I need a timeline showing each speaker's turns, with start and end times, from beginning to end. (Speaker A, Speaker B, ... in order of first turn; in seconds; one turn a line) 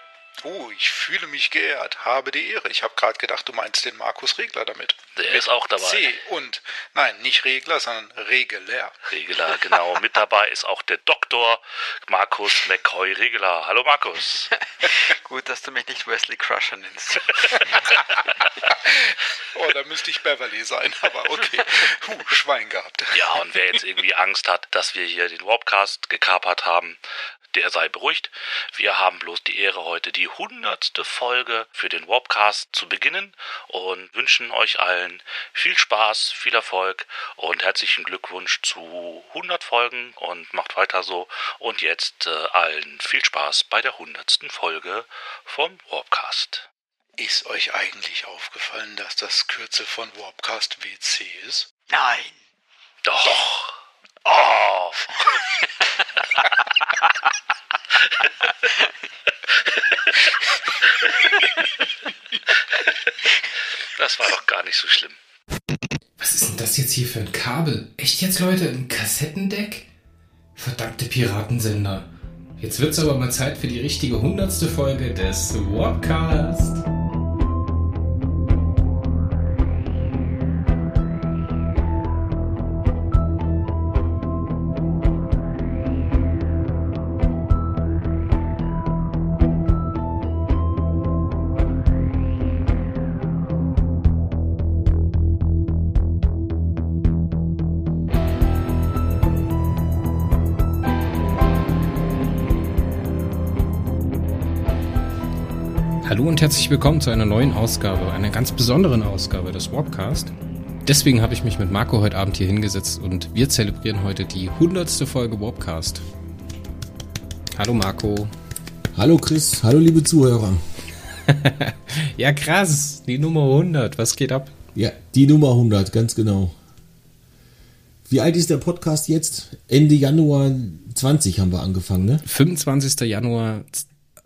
Speaker A: 0.4-9.5
Speaker B: 5.2-6.2
Speaker B: 9.1-14.5
Speaker C: 14.8-17.8
Speaker A: 19.5-23.2
Speaker B: 23.1-27.0
Speaker B: 27.5-46.7
Speaker A: 47.2-51.7
Speaker C: 51.9-52.4
Speaker B: 53.0-53.7
Speaker B: 54.5-55.0
Speaker B: 64.0-65.2
Speaker D: 66.2-69.9
Speaker D: 70.6-72.1
Speaker D: 72.6-76.8
Speaker D: 106.0-110.3
Speaker D: 110.9-116.0
Speaker D: 117.5-118.3
Speaker E: 119.0-120.6
Speaker D: 121.2-124.5
Speaker E: 124.8-126.6
Speaker E: 128.1-132.2
Speaker D: 132.3-133.9